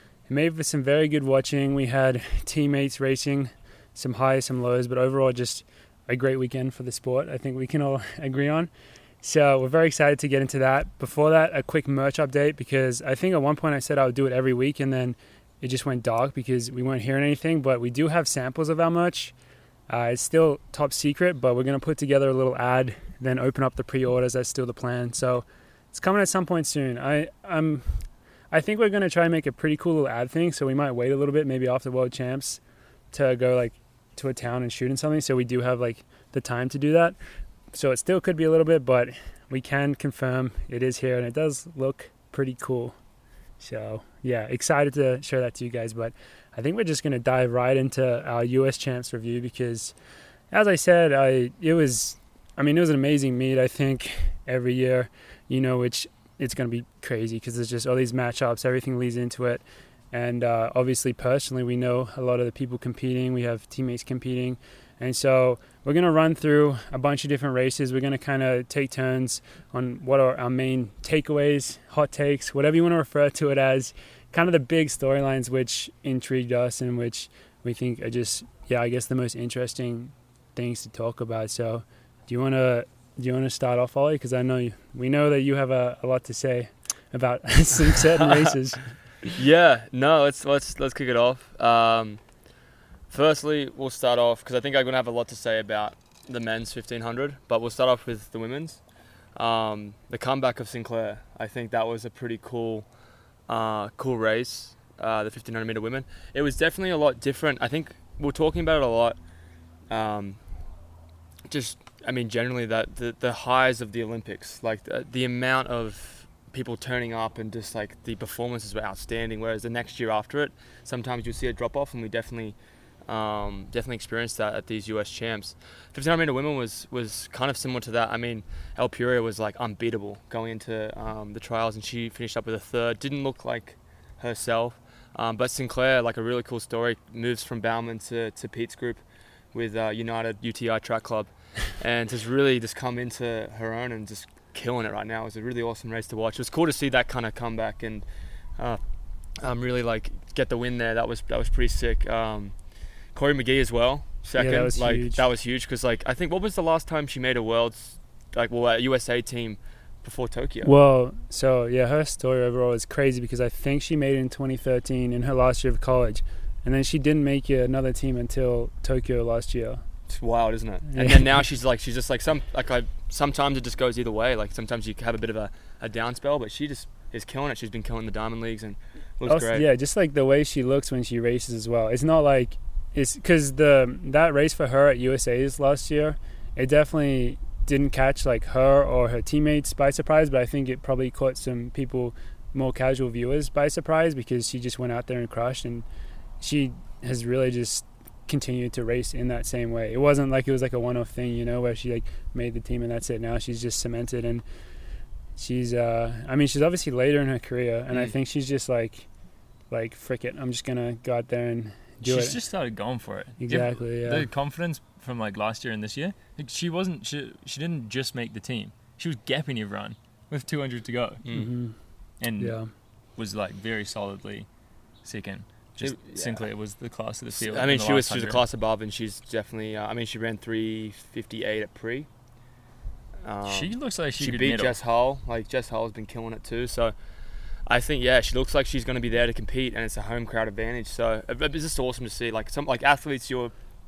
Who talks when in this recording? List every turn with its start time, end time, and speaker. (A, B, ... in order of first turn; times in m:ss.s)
0:00.3-0:08.7 A
0:09.2-0:19.3 A
0:19.9-0:27.8 A
0:28.5-0:32.6 A
0:33.1-0:37.2 A
0:37.7-0:42.9 A
0:43.6-0:49.9 A
0:50.5-1:29.3 A
1:28.2-1:28.6 B
1:29.4-1:32.2 B
1:33.1-1:38.8 B
1:39.4-1:42.9 B
1:43.5-1:49.2 B
1:49.9-1:50.4 B
1:51.5-2:19.0 B
2:19.5-2:28.0 B
2:29.4-2:32.5 B
2:33.1-2:40.7 B
2:34.4-2:35.2 A
2:40.6-2:49.8 A
2:50.1-2:59.6 B
2:50.9-2:51.3 A
2:59.3-3:15.8 A
3:16.4-3:24.4 A
3:25.4-3:29.0 A
3:29.7-3:32.4 A
3:32.0-3:41.2 C
3:33.4-3:34.3 A
3:41.3-3:41.7 A
3:42.2-3:42.6 C
3:42.4-3:42.7 A
3:43.2-3:44.5 C
3:45.0-3:48.4 C
3:45.8-3:46.5 B
3:47.3-3:52.1 B
3:53.2-3:56.9 B
3:53.4-3:54.8 C
3:57.6-4:03.5 B